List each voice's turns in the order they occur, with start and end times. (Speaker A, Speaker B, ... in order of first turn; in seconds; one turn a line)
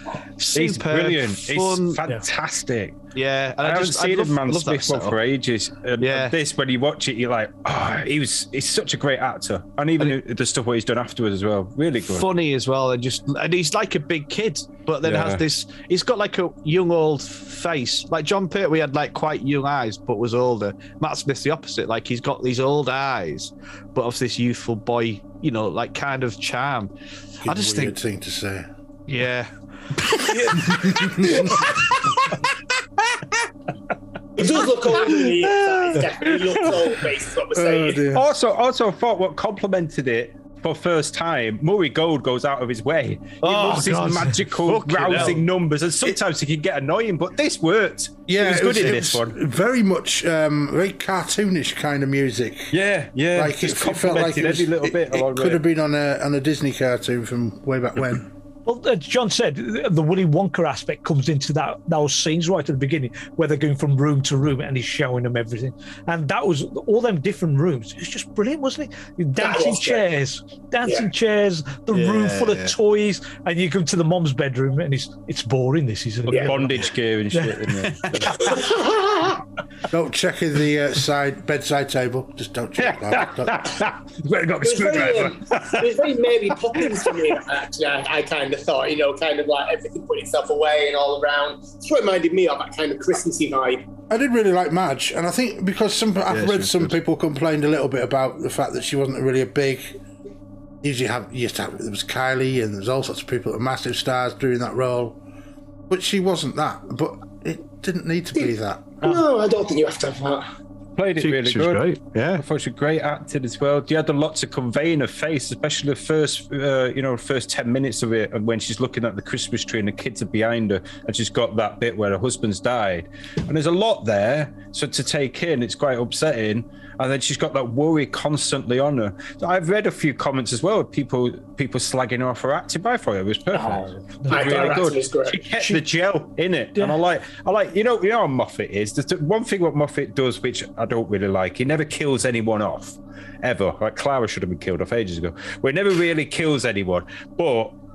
Speaker A: 0.4-2.0
Speaker B: 0.5-3.0
Speaker A: 3.1-5.2
Speaker B: 3.6-12.3
Speaker A: 6.0-6.3
Speaker A: 12.0-26.9
Speaker B: 15.0-15.4
Speaker C: 27.4-28.7
Speaker A: 27.4-27.9
Speaker A: 29.1-31.9
Speaker D: 30.3-30.6
Speaker C: 30.6-31.5
Speaker E: 34.4-38.0
Speaker A: 35.1-36.0
Speaker C: 37.5-38.3
Speaker B: 38.1-49.4
Speaker A: 43.4-45.4
Speaker C: 48.3-52.7
Speaker B: 52.7-55.6
Speaker C: 53.3-58.3
Speaker D: 58.6-77.7
Speaker E: 69.4-70.1
Speaker A: 71.9-72.7
Speaker E: 76.3-76.5
Speaker B: 76.3-78.6
Speaker A: 78.0-78.3
Speaker E: 78.4-79.4
Speaker C: 79.9-83.8
Speaker B: 82.8-86.0
Speaker E: 84.6-93.9
Speaker B: 86.8-87.3
Speaker C: 94.1-100.0
Speaker A: 96.3-96.9
Speaker C: 100.8-105.2
Speaker C: 105.9-109.1
Speaker E: 108.4-110.4
Speaker B: 111.0-147.8
Speaker A: 111.2-112.4
Speaker D: 133.5-134.9
Speaker E: 134.3-135.5
Speaker D: 135.5-135.8